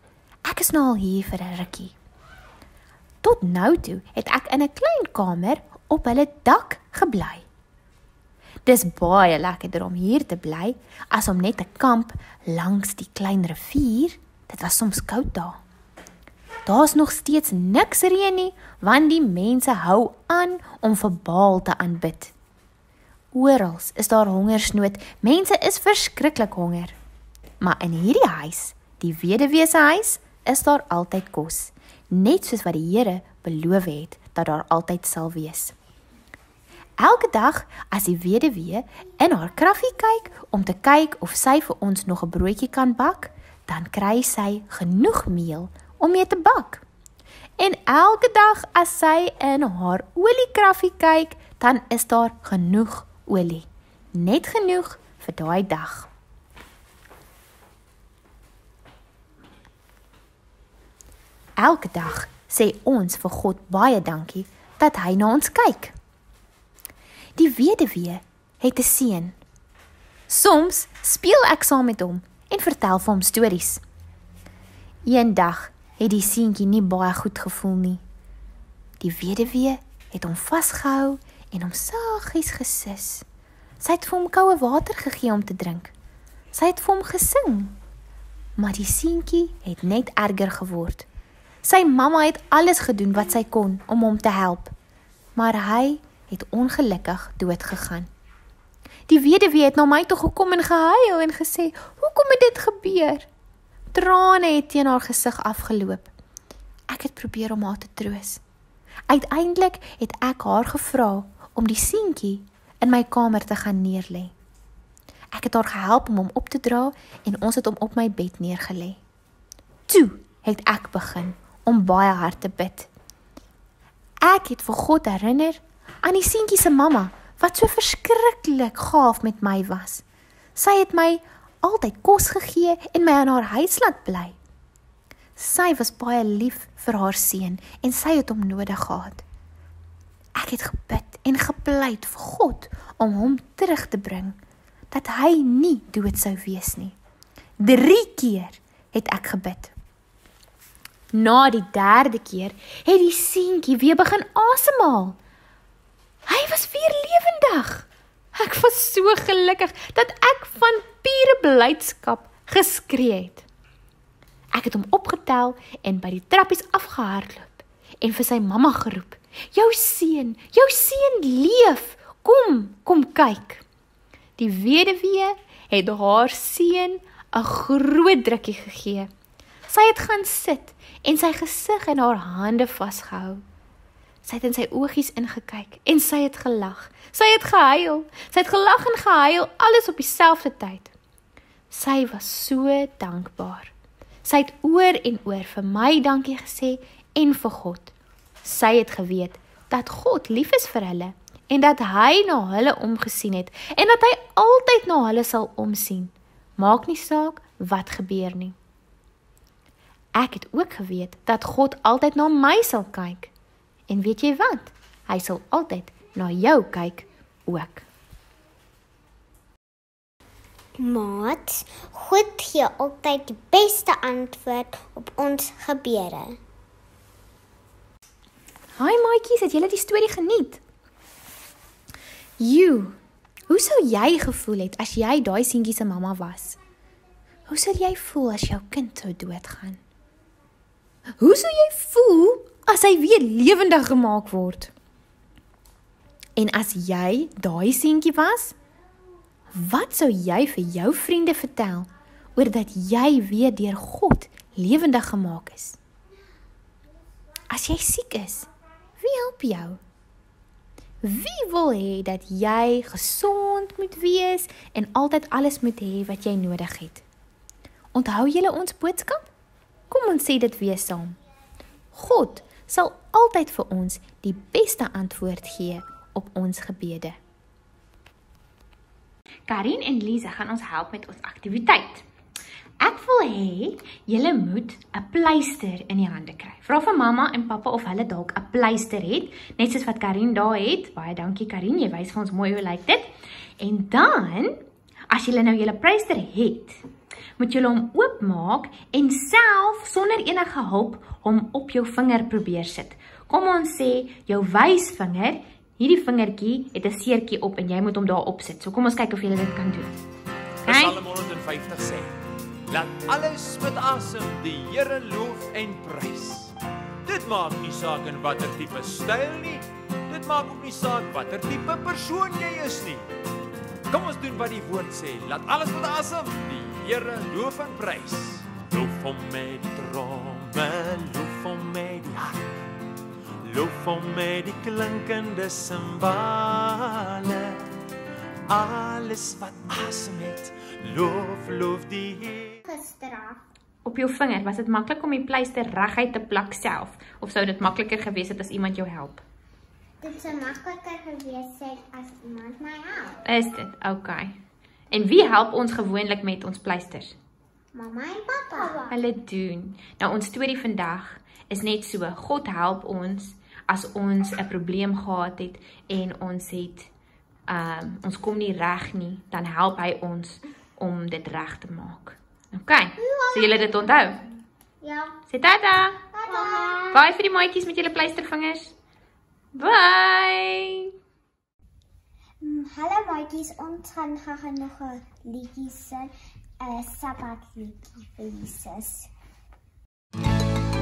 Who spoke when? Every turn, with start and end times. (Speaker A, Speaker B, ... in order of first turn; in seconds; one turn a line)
Speaker A: 0.5-1.9
Speaker A: 3.2-7.5
Speaker A: 8.7-15.6
Speaker A: 16.7-22.3
Speaker A: 23.3-26.9
Speaker A: 27.6-35.8
Speaker A: 37.0-46.8
Speaker A: 47.6-56.1
Speaker A: 61.6-66.0
Speaker A: 67.4-69.4
Speaker A: 70.3-73.8
Speaker A: 75.0-78.0
Speaker A: 79.0-83.2
Speaker A: 83.8-85.9
Speaker A: 86.5-87.8
Speaker A: 88.6-91.1
Speaker A: 91.6-94.7
Speaker A: 95.4-98.1
Speaker A: 99.1-103.3
Speaker A: 103.9-106.1
Speaker A: 106.9-108.4
Speaker A: 109.1-114.3
Speaker A: 115.3-119.0
Speaker A: 119.9-122.9
Speaker A: 124.2-130.0
Speaker A: 130.6-134.4
Speaker A: 135.4-139.2
Speaker A: 140.4-144.4
Speaker A: 144.9-146.9
Speaker A: 147.6-149.7
Speaker A: 151.1-155.2
Speaker A: 156.3-163.4
Speaker A: 164.5-173.6
Speaker A: 174.4-179.1
Speaker A: 179.7-183.4
Speaker A: 184.2-190.9
Speaker A: 191.7-193.7
Speaker A: 194.2-197.9
Speaker A: 198.4-208.6
Speaker A: 210.2-213.3
Speaker A: 213.9-217.8
Speaker B: 220.8-226.4
Speaker A: 228.8-230.6
Speaker A: 232.4-236.6
Speaker A: 237.5-239.8
Speaker A: 241.2-244.7
Speaker A: 246.4-248.6
Speaker A: 249.5-255.8
Speaker A: 257.5-259.8
Speaker A: 261.0-267.0
Speaker A: 267.9-269.3
Speaker A: 269.9-271.2
Speaker A: 271.9-277.2
Speaker A: 279.5-282.1
Speaker A: 282.8-296.8
Speaker A: 297.4-310.0
Speaker C: 310.6-312.1
Speaker A: 310.7-311.0
Speaker C: 312.7-323.1
Speaker C: 323.9-332.4
Speaker C: 333.4-337.7
Speaker C: 338.5-342.6
Speaker B: 342.6-343.4
Speaker A: 343.9-349.2
Speaker B: 350.0-353.2
Speaker A: 353.2-354.4
Speaker A: 354.9-357.1
Speaker B: 357.7-359.0
Speaker A: 358.9-366.9
Speaker A: 367.5-374.2
Speaker B: 373.0-373.7
Speaker B: 374.8-375.2
Speaker A: 375.3-376.0
Speaker B: 376.1-377.0
Speaker A: 376.9-378.7
Speaker A: 379.5-380.9
Speaker B: 382.4-389.1